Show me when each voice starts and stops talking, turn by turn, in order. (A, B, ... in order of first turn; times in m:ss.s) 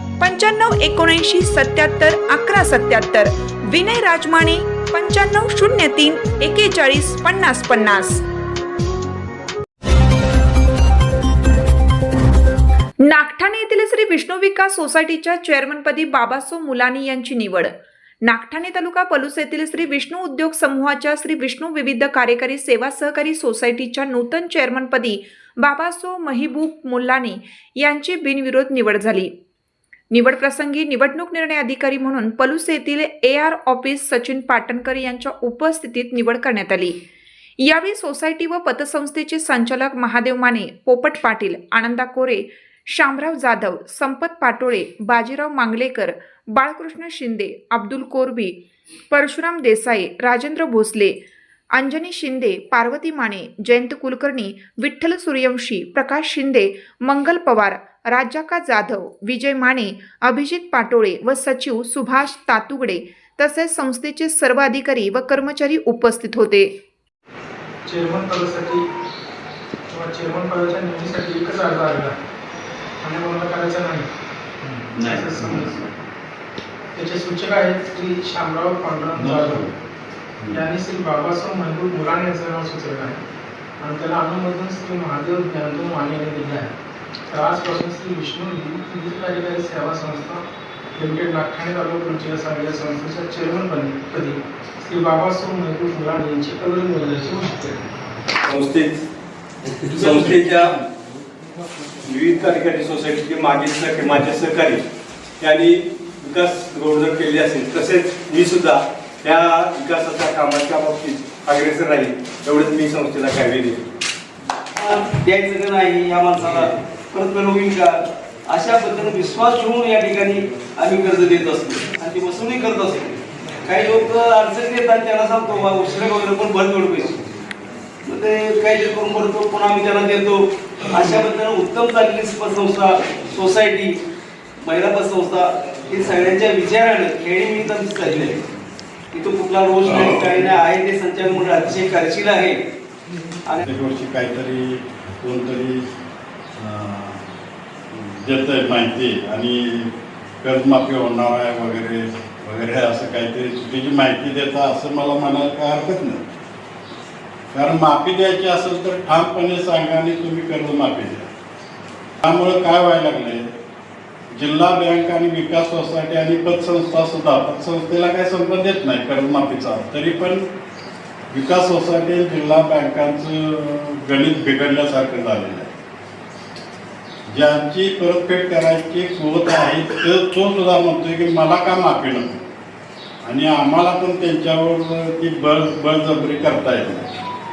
0:00.2-0:08.2 A
0:13.0-0:17.7 A
0:18.2-0:29.3 A
0:30.1-0:37.0 A
0:37.6-0:48.6 A
0:49.1-0:51.2 A
0:51.7-1:06.7 A
1:07.8-1:08.8 B
1:09.9-1:12.2 B
1:13.0-1:14.1 B
1:14.6-1:15.8 B
1:15.4-1:15.7 C
1:16.9-1:19.7 B
1:19.2-1:19.7 C
1:20.5-1:23.2 B
1:23.8-1:26.7 B
1:27.3-1:37.9 B
1:38.5-1:39.0 D
1:39.9-1:40.7 E
1:40.2-1:40.8 D
1:42.1-1:44.8 D
1:42.1-1:44.6 E
1:45.4-1:53.8 D
1:46.3-1:48.5 E
1:54.8-2:07.3 E
2:08.0-2:14.0 E
2:14.6-2:18.4 E
2:19.1-2:22.6 E
2:23.6-2:25.9 C
2:26.6-2:27.2 C
2:27.9-2:29.9 C
2:30.4-2:36.3 C
2:37.5-2:41.3 C
2:42.2-2:43.5 C
2:44.3-2:50.4 C
2:51.3-2:55.8 C
2:57.3-3:02.5 C
3:03.2-3:07.2 C